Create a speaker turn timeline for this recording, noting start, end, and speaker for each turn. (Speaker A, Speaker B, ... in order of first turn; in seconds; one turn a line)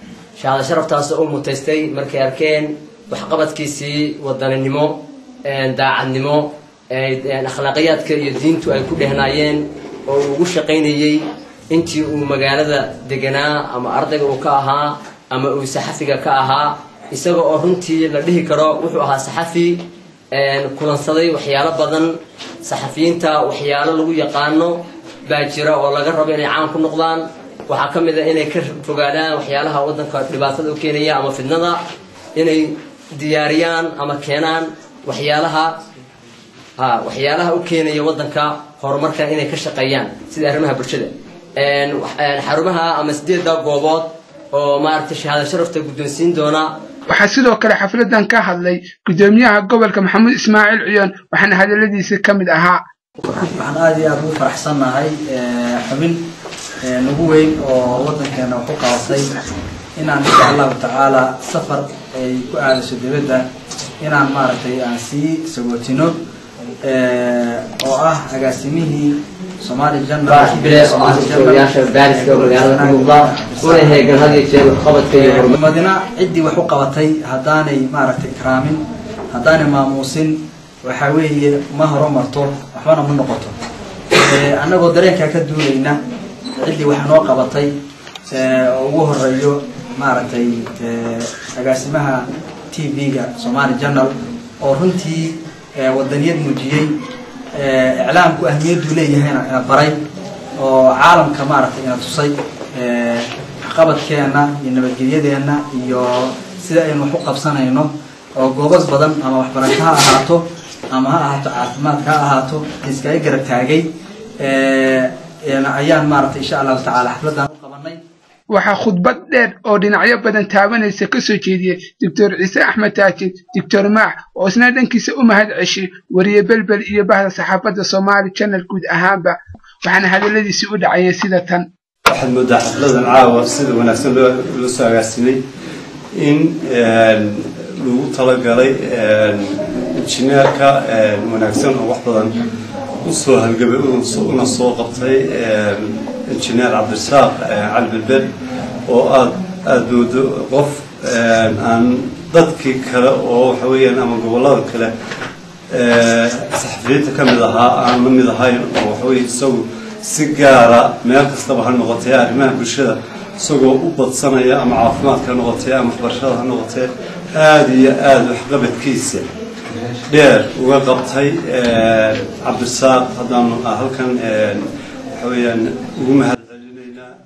Speaker A: 0.4-22.1
Speaker A: 22.6-31.8
Speaker A: 32.4-35.7
Speaker A: 36.8-46.7
Speaker B: 47.1-52.8
Speaker C: 53.4-56.2
Speaker C: 56.8-59.4
Speaker C: 60.0-63.5
Speaker C: 64.0-66.2
Speaker C: 66.8-74.5
Speaker A: 70.3-75.5
Speaker C: 75.0-83.5
Speaker C: 84.1-86.0
Speaker C: 86.6-87.8
Speaker C: 88.3-96.9
Speaker C: 97.6-100.0
Speaker C: 100.6-113.9
Speaker C: 114.4-118.0
Speaker B: 118.5-131.7
Speaker D: 132.1-135.4
Speaker D: 136.1-142.4
Speaker D: 143.0-148.3
Speaker D: 148.9-154.9
Speaker D: 155.7-169.3
Speaker D: 169.8-177.1